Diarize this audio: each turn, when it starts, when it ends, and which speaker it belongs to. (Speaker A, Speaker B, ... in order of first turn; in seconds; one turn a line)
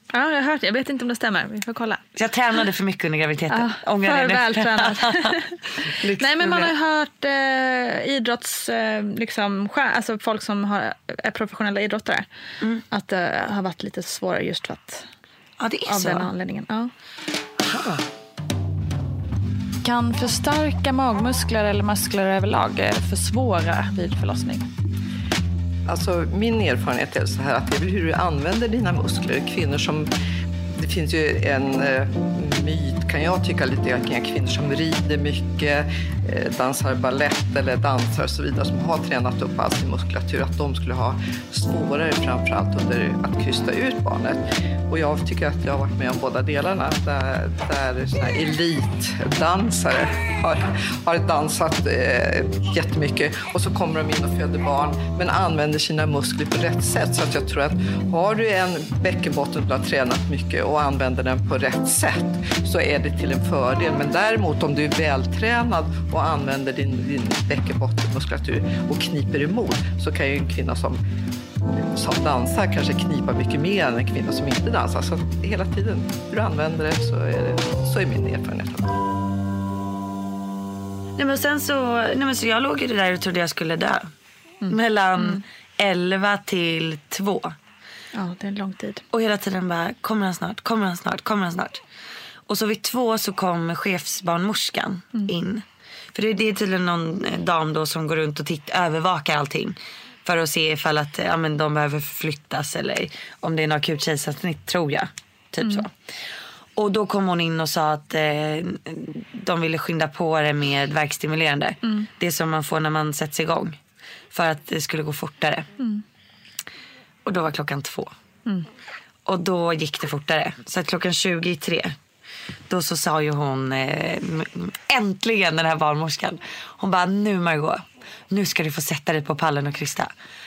Speaker A: 0.1-2.0
Speaker B: 2.1-6.7
Speaker A: 3.5-5.5
Speaker A: 6.2-12.3
Speaker A: 12.9-15.1
Speaker B: 15.6-16.3
Speaker A: 15.9-16.9
Speaker B: 17.6-18.0
Speaker A: 19.8-24.7
Speaker C: 25.9-30.1
Speaker C: 30.8-71.0
Speaker C: 71.7-79.0
Speaker B: 81.2-84.1
Speaker A: 84.6-85.4
Speaker B: 84.7-87.5
Speaker A: 88.1-89.0
Speaker B: 89.1-91.8
Speaker B: 92.5-105.9
Speaker B: 106.8-113.8
Speaker B: 114.3-115.7
Speaker B: 117.2-118.1
Speaker B: 119.3-121.9
Speaker B: 122.7-130.1